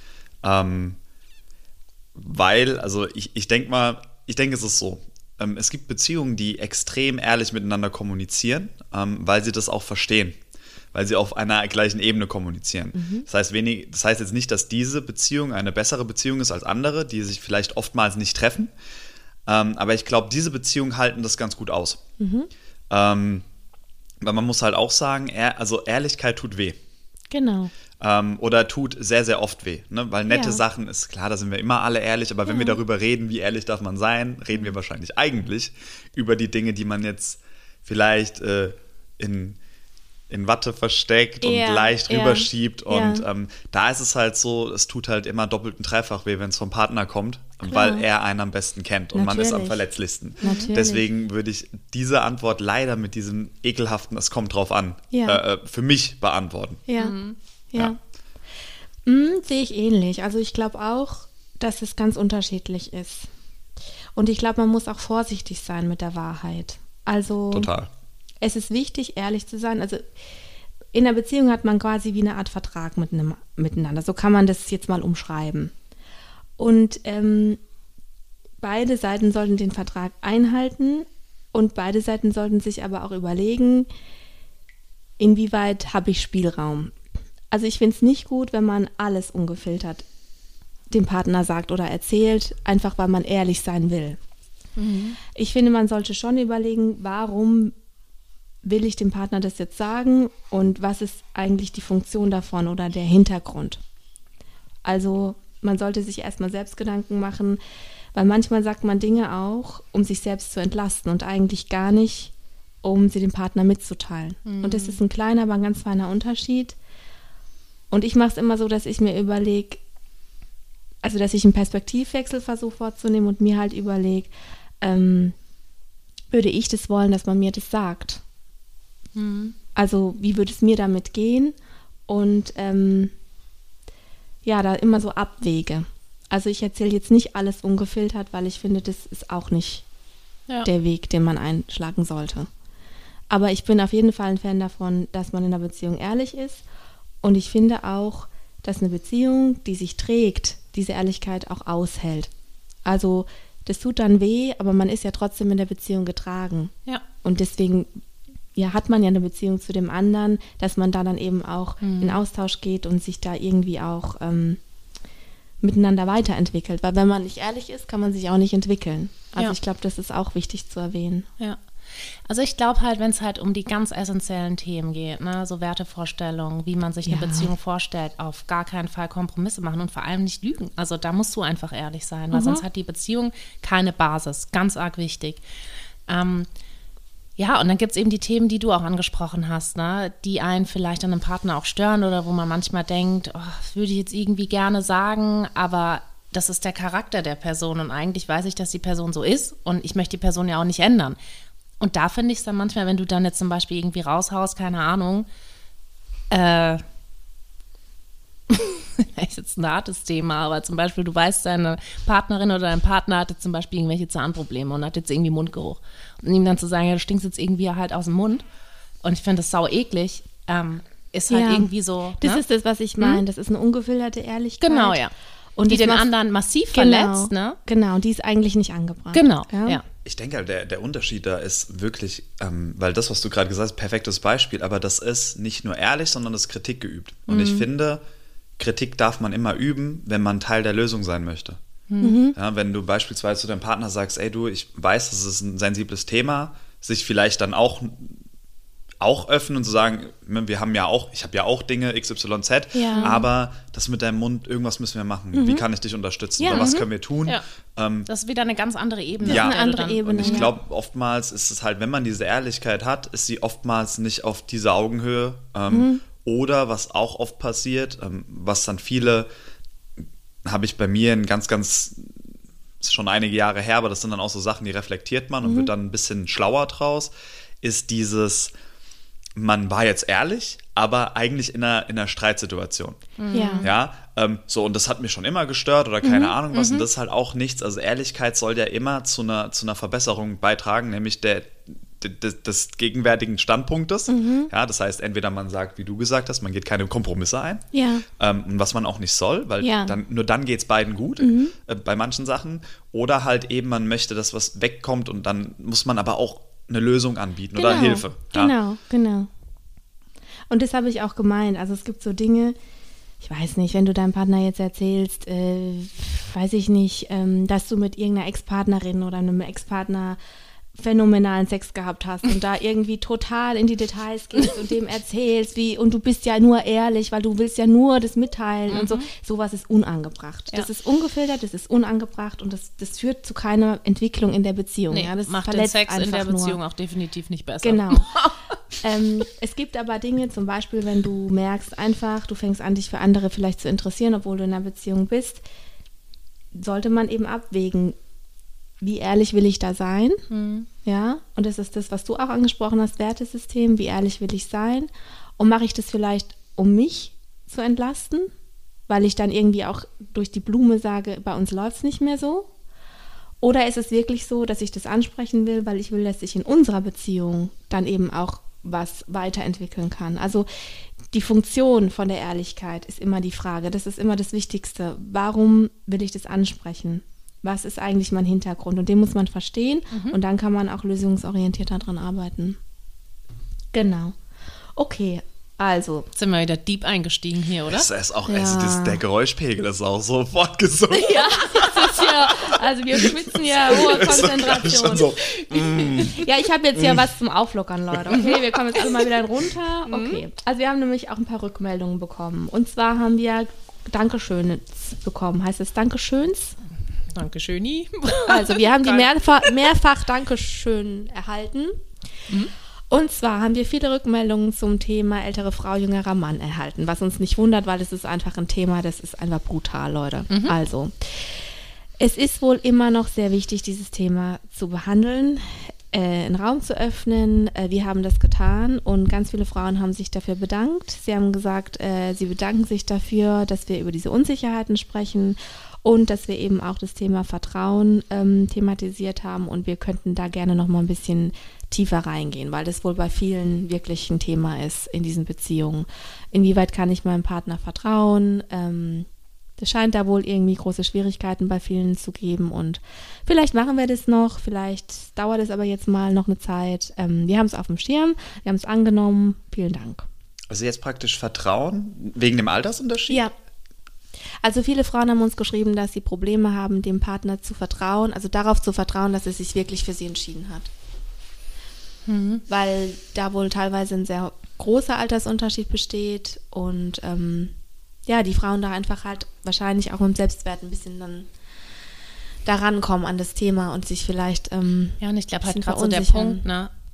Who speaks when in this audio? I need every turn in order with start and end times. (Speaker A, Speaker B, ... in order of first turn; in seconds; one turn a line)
Speaker A: 0.4-1.0
Speaker A: 2.2-10.4
Speaker A: 10.9-18.7
Speaker B: 12.9-13.3
Speaker A: 19.5-22.0
Speaker B: 22.2-22.5
Speaker A: 22.9-23.4
Speaker A: 24.2-26.8
Speaker B: 27.3-27.7
Speaker A: 28.0-39.6
Speaker B: 30.3-30.6
Speaker B: 32.5-32.8
Speaker A: 40.3-56.8
Speaker B: 41.4-43.2
Speaker B: 47.6-48.0
Speaker B: 49.1-49.8
Speaker B: 50.4-51.0
Speaker C: 50.4-50.7
Speaker B: 55.1-55.4
Speaker B: 56.9-57.1
Speaker C: 57.0-57.4
Speaker B: 57.7-58.0
Speaker B: 59.1-63.3
Speaker B: 64.2-67.7
Speaker A: 67.5-67.9
Speaker B: 68.4-70.0
Speaker B: 70.9-75.7
Speaker B: 76.6-77.6
Speaker B: 78.6-83.9
Speaker B: 85.2-87.0
Speaker B: 87.5-90.0
Speaker B: 90.9-94.2
Speaker C: 94.8-95.2
Speaker B: 95.3-97.8
Speaker B: 98.6-103.8
Speaker B: 104.8-107.6
Speaker B: 108.2-112.3
Speaker B: 112.8-116.8
Speaker C: 114.5-115.0
Speaker B: 117.9-119.8
Speaker B: 121.0-124.3
Speaker B: 124.8-125.3
Speaker B: 126.3-128.2
Speaker C: 129.2-129.6
Speaker B: 129.8-131.6
Speaker B: 132.1-133.1
Speaker B: 134.4-139.8
Speaker B: 140.6-142.5
Speaker B: 143.3-146.6
Speaker B: 147.2-152.3
Speaker B: 152.8-156.7
Speaker B: 157.2-157.9
Speaker B: 158.6-164.6
Speaker C: 161.8-162.2
Speaker B: 165.6-171.3
Speaker C: 172.3-185.4
Speaker B: 177.1-177.5
Speaker B: 182.3-182.6
Speaker C: 186.1-186.5
Speaker C: 187.4-201.2
Speaker C: 201.8-205.3
Speaker C: 206.3-206.8
Speaker C: 208.5-218.4
Speaker C: 219.0-222.4
Speaker B: 221.3-225.0
Speaker C: 224.6-225.1
Speaker B: 225.6-226.1
Speaker C: 225.7-227.6
Speaker B: 226.7-229.8
Speaker C: 229.1-229.8
Speaker A: 230.1-238.0
Speaker C: 237.3-237.7
Speaker A: 238.6-241.6
Speaker C: 241.9-242.2
Speaker B: 242.0-242.4
Speaker A: 242.3-248.2
Speaker A: 249.0-258.1
Speaker B: 252.7-253.2
Speaker C: 252.9-253.2
Speaker B: 255.3-255.6
Speaker B: 256.4-256.7
Speaker C: 256.5-257.4
Speaker C: 258.1-260.5
Speaker A: 259.2-269.3
Speaker B: 259.2-260.5
Speaker B: 265.7-266.0
Speaker A: 270.4-272.2
Speaker A: 272.8-277.1
Speaker B: 275.4-275.7
Speaker A: 277.6-278.5
Speaker A: 279.4-297.6
Speaker C: 283.2-283.7
Speaker B: 283.3-283.7
Speaker C: 286.1-286.9
Speaker B: 294.1-294.5
Speaker B: 297.7-298.1
Speaker A: 298.2-308.5
Speaker B: 299.6-300.0
Speaker B: 301.2-301.5
Speaker B: 307.6-309.3
Speaker B: 310.5-312.6
Speaker B: 313.2-320.2
Speaker B: 320.8-336.6
Speaker C: 328.7-329.1
Speaker C: 334.9-338.3
Speaker B: 337.6-338.1
Speaker B: 338.8-345.4
Speaker B: 346.5-348.0
Speaker B: 348.8-350.2
Speaker C: 350.3-350.7
Speaker B: 350.8-358.3
Speaker B: 358.9-362.5
Speaker B: 363.4-370.5
Speaker B: 371.1-382.6
Speaker C: 379.9-380.2
Speaker B: 383.7-384.1
Speaker B: 384.8-386.1
Speaker C: 386.1-387.9
Speaker A: 387.7-397.1
Speaker B: 388.3-389.0
Speaker B: 390.9-406.6
Speaker C: 398.1-398.4
Speaker C: 399.9-400.2
Speaker C: 407.1-409.5
Speaker B: 408.3-411.8
Speaker B: 412.9-449.1
Speaker C: 420.3-420.6
Speaker B: 449.6-460.1
Speaker A: 460.5-463.2
Speaker B: 464.4-470.7
Speaker C: 472.1-472.4
Speaker B: 472.5-477.5
Speaker B: 478.1-481.3
Speaker B: 482.4-486.4
Speaker C: 485.0-486.7